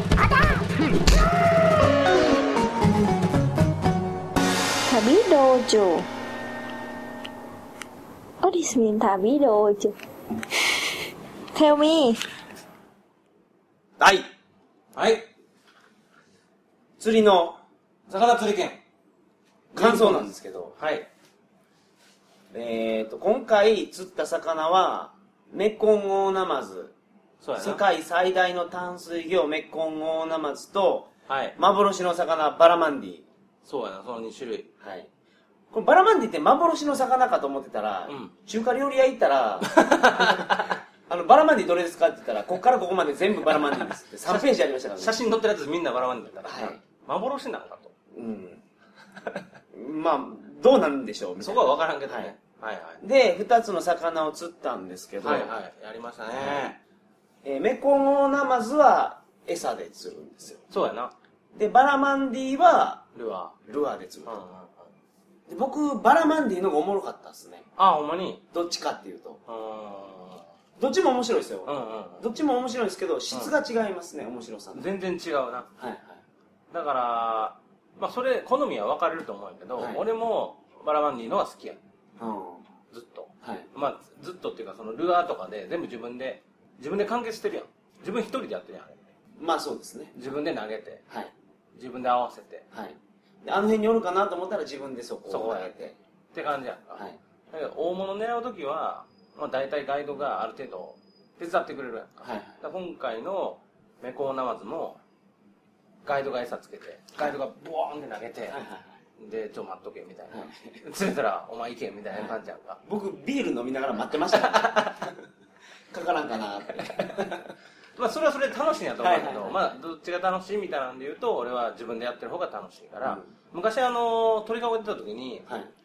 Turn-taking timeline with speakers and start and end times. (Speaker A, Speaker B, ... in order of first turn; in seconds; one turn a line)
Speaker A: 0.2-0.6
Speaker A: 4.9-6.1
Speaker A: 8.4-10.0
Speaker A: 11.5-12.2
Speaker B: 14.0-14.3
Speaker C: 14.9-15.3
Speaker B: 17.0-17.6
Speaker C: 18.1-18.8
Speaker B: 19.7-20.8
Speaker C: 19.8-21.1
Speaker B: 22.5-26.9
Speaker C: 27.4-27.8
Speaker B: 27.6-33.3
Speaker C: 31.3-31.6
Speaker C: 33.6-34.7
Speaker B: 34.8-35.1
Speaker B: 35.7-45.2
Speaker C: 38.1-38.3
Speaker C: 39.7-40.8
Speaker C: 43.5-47.9
Speaker B: 46.5-46.8
Speaker B: 48.1-48.6
Speaker B: 49.7-52.3
Speaker C: 51.4-53.0
Speaker B: 53.0-55.5
Speaker C: 55.2-56.8
Speaker B: 56.3-56.7
Speaker B: 57.4-60.6
Speaker C: 60.7-61.1
Speaker B: 61.5-63.0
Speaker C: 63.1-63.6
Speaker B: 63.6-64.3
Speaker C: 64.3-64.9
Speaker B: 65.5-67.7
Speaker C: 67.8-68.5
Speaker B: 68.5-69.4
Speaker C: 69.5-70.5
Speaker B: 70.8-74.9
Speaker C: 71.7-72.2
Speaker C: 74.7-75.7
Speaker B: 75.8-76.2
Speaker C: 76.7-81.8
Speaker B: 79.8-80.0
Speaker B: 82.2-82.7
Speaker C: 82.9-89.0
Speaker B: 83.4-83.7
Speaker B: 89.4-90.1
Speaker C: 90.2-91.0
Speaker B: 91.1-91.3
Speaker C: 91.8-92.7
Speaker B: 92.7-96.0
Speaker C: 95.3-105.0
Speaker B: 102.2-102.6
Speaker C: 106.0-108.6
Speaker B: 108.5-109.0
Speaker C: 109.2-112.8
Speaker B: 112.1-115.1
Speaker C: 114.4-115.0
Speaker B: 115.9-117.4
Speaker C: 118.0-125.5
Speaker B: 119.0-119.6
Speaker B: 123.0-123.3
Speaker B: 125.5-125.7